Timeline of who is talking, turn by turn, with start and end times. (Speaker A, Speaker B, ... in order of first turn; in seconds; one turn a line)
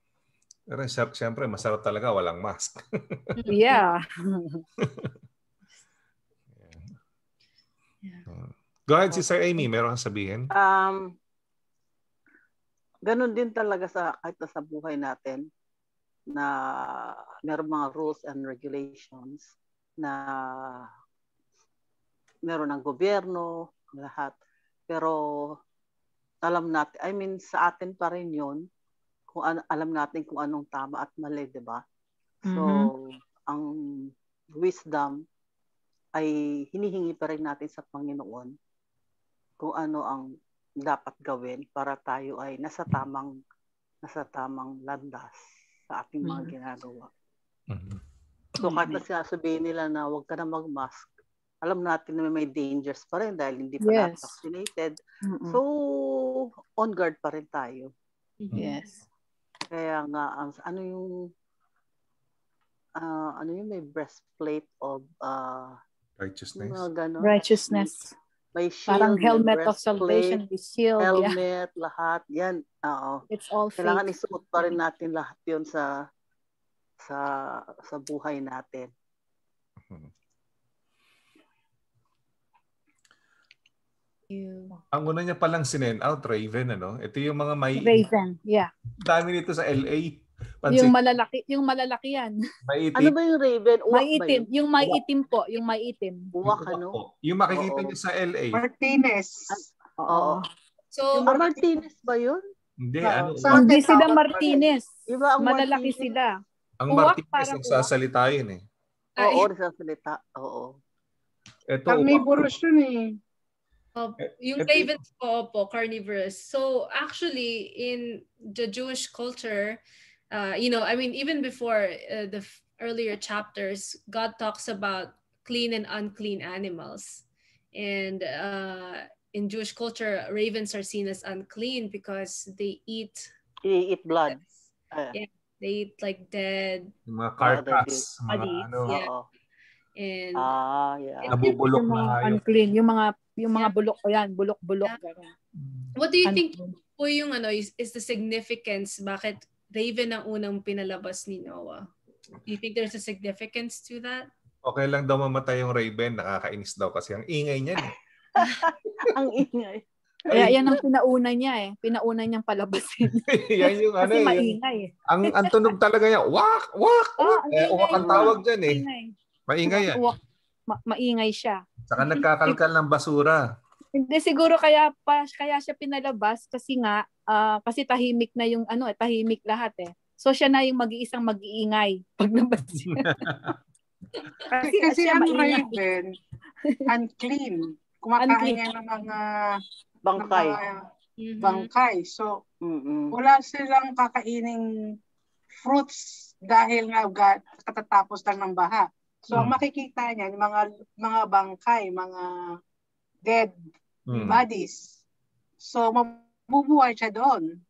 Speaker A: 0.7-3.2
Speaker B: 3.4-3.8
Speaker C: 3.5-4.6
Speaker A: 4.8-5.1
Speaker A: 6.6-6.9
Speaker A: 8.3-10.5
Speaker D: 10.5-11.1
Speaker D: 13.1-15.4
Speaker D: 16.3-19.5
Speaker D: 20.0-20.9
Speaker D: 22.4-24.4
Speaker D: 24.9-25.6
Speaker D: 26.4-28.6
Speaker D: 29.3-31.8
Speaker C: 32.5-32.9
Speaker D: 32.5-32.9
Speaker D: 34.6-35.2
Speaker D: 36.2-38.5
Speaker D: 39.6-40.3
Speaker D: 40.8-43.3
Speaker D: 44.0-45.4
Speaker D: 45.9-47.1
Speaker C: 46.2-46.5
Speaker A: 47.7-48.0
Speaker C: 48.6-49.0
Speaker D: 48.6-51.1
Speaker D: 51.6-55.0
Speaker C: 53.8-54.4
Speaker C: 55.2-55.6
Speaker D: 55.5-57.9
Speaker B: 58.4-58.9
Speaker C: 58.5-59.0
Speaker D: 59.7-61.3
Speaker D: 63.0-65.8
Speaker A: 66.2-66.9
Speaker D: 66.6-67.9
Speaker C: 67.2-68.1
Speaker D: 68.6-70.4
Speaker C: 68.9-71.3
Speaker D: 71.0-73.2
Speaker C: 73.3-74.1
Speaker D: 73.8-75.9
Speaker D: 77.0-78.9
Speaker A: 79.8-80.1
Speaker B: 84.3-84.8
Speaker A: 84.9-88.0
Speaker C: 87.8-88.7
Speaker A: 89.0-90.9
Speaker C: 90.7-92.4
Speaker A: 92.7-93.1
Speaker D: 93.0-95.0
Speaker C: 93.9-96.3
Speaker D: 96.3-97.0
Speaker A: 96.4-98.6
Speaker D: 97.5-98.0
Speaker E: 98.5-99.6
Speaker D: 99.5-100.4
Speaker C: 100.1-100.5
Speaker B: 100.9-101.3
Speaker E: 101.2-101.6
Speaker D: 101.2-102.4
Speaker A: 102.8-103.8
Speaker D: 103.1-103.7
Speaker E: 103.4-104.6
Speaker C: 103.5-104.9
Speaker D: 104.4-106.1
Speaker C: 105.4-106.3
Speaker A: 106.8-108.6
Speaker C: 106.9-107.9
Speaker C: 109.2-109.5
Speaker D: 109.2-110.8
Speaker A: 111.7-112.3
Speaker E: 111.9-113.1
Speaker B: 114.0-133.3
Speaker A: 114.6-114.9
Speaker D: 133.6-135.1
Speaker B: 135.1-136.9
Speaker A: 137.1-138.9
Speaker D: 137.4-138.1
Speaker B: 138.3-139.1
Speaker D: 138.9-139.2
Speaker B: 140.0-140.5
Speaker D: 140.4-141.3
Speaker A: 141.3-142.4
Speaker C: 141.4-145.3
Speaker A: 145.6-145.9
Speaker B: 145.9-151.9
Speaker C: 146.3-146.7
Speaker B: 152.4-154.3
Speaker A: 154.6-157.9
Speaker D: 158.4-160.8
Speaker A: 160.3-160.6
Speaker C: 160.3-165.6
Speaker A: 163.1-164.6
Speaker A: 165.1-168.8
Speaker C: 167.2-169.1
Speaker D: 167.9-168.3
Speaker A: 169.5-170.1
Speaker C: 169.7-170.2
Speaker C: 170.7-172.6
Speaker A: 171.9-173.4
Speaker C: 173.9-183.3
Speaker A: 182.9-183.5
Speaker C: 184.5-185.8
Speaker E: 184.6-186.1
Speaker E: 186.9-189.3
Speaker C: 188.2-188.7
Speaker D: 190.1-190.6
Speaker E: 190.2-190.8
Speaker B: 191.2-191.7
Speaker E: 191.4-192.3
Speaker D: 192.6-193.1
Speaker E: 193.1-194.6
Speaker E: 195.6-202.3
Speaker A: 204.1-204.4
Speaker E: 204.2-204.9
Speaker E: 205.6-207.4